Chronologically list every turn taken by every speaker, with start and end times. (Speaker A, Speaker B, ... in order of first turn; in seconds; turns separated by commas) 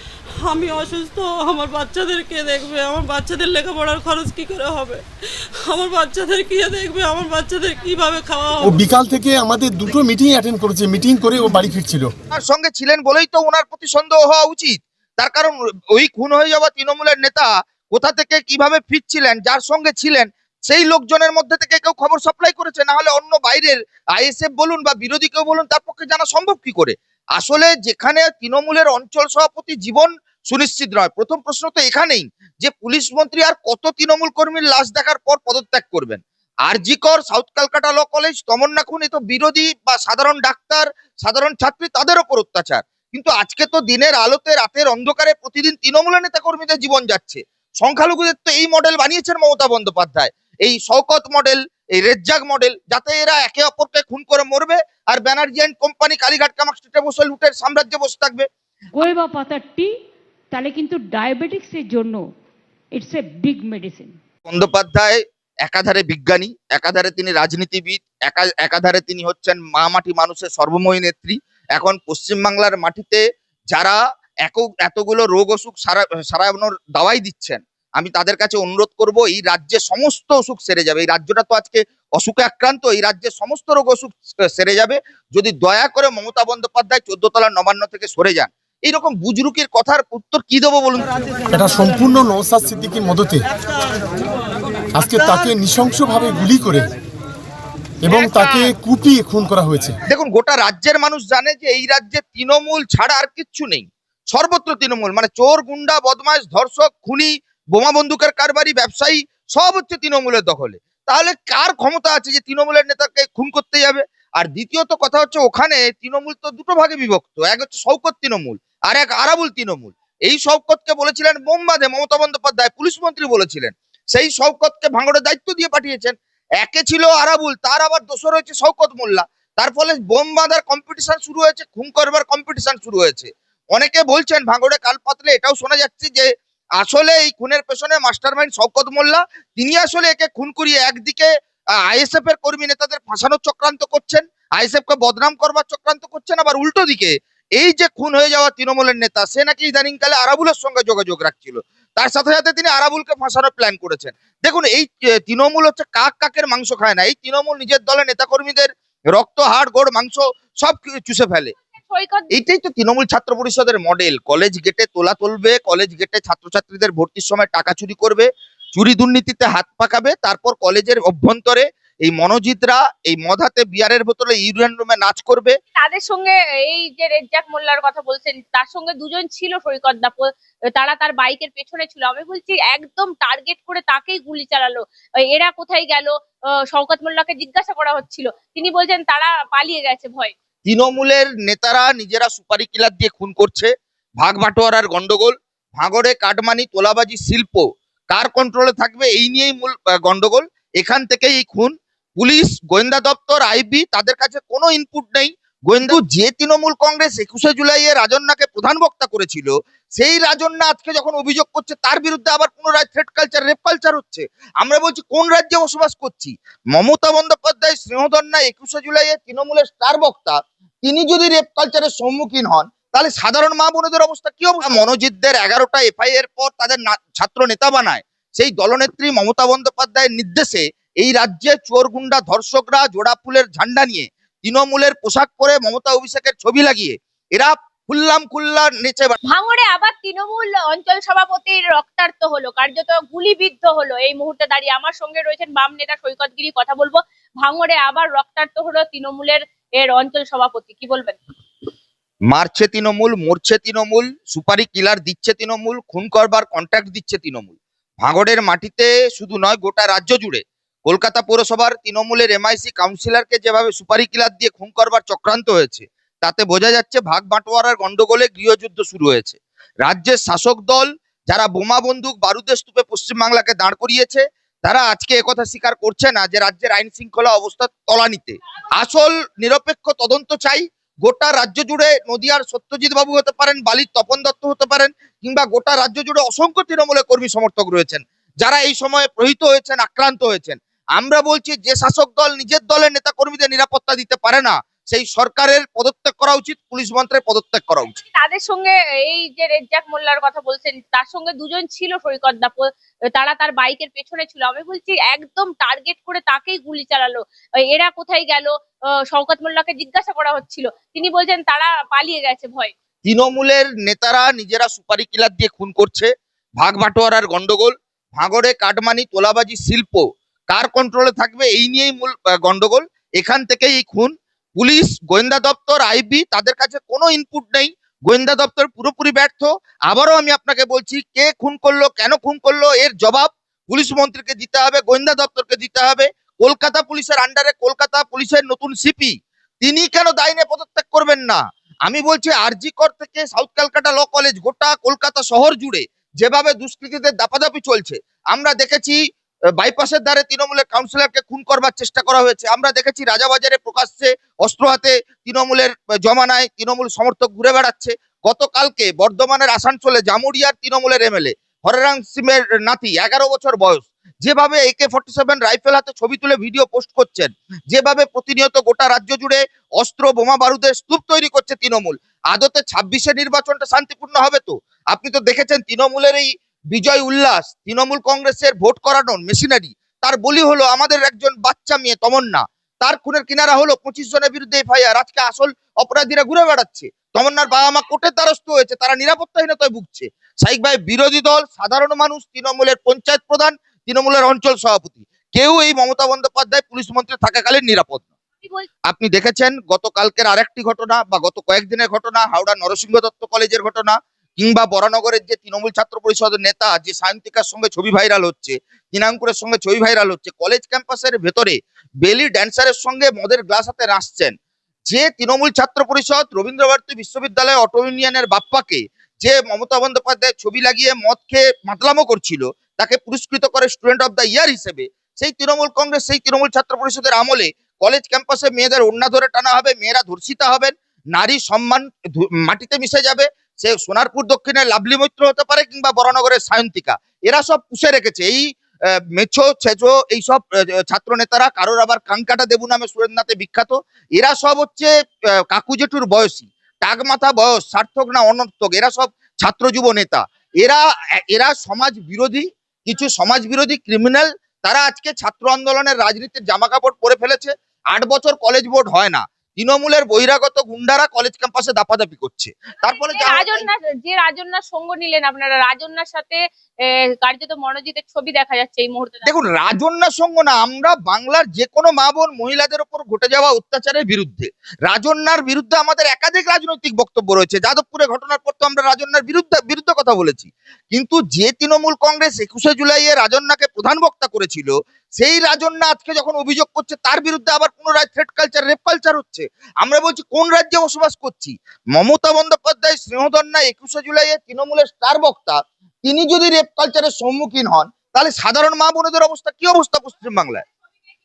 Speaker A: 0.4-5.0, Speaker A: 5.7-8.8, Speaker B: 8.6-12.1, Speaker C: 12.3-58.5, Speaker D: 59.0-59.9, Speaker D: 60.5-62.3, Speaker D: 63.0-64.1, Speaker C: 64.5-73.2, Speaker C: 73.7-91.1, Speaker B: 91.5-93.5, Speaker B: 95.0-96.9, Speaker B: 98.0-100.0, Speaker A: 98.1-98.7, Speaker C: 100.1-141.3, Speaker C: 141.9-161.5, Speaker E: 161.8-162.3, Speaker C: 162.3-175.6, Speaker E: 175.8-190.3, Speaker C: 190.7-239.2, Speaker E: 239.3-251.2, Speaker C: 252.3-297.9, Speaker E: 298.0-312.7, Speaker C: 313.0-349.0, Speaker C: 349.6-398.0, Speaker E: 398.4-398.7, Speaker C: 398.9-414.3, Speaker C: 414.9-438.5, Speaker C: 439.1-444.9, Speaker C: 445.5-463.7, Speaker E: 462.9-466.4, Speaker E: 467.2-469.3, Speaker C: 469.3-500.6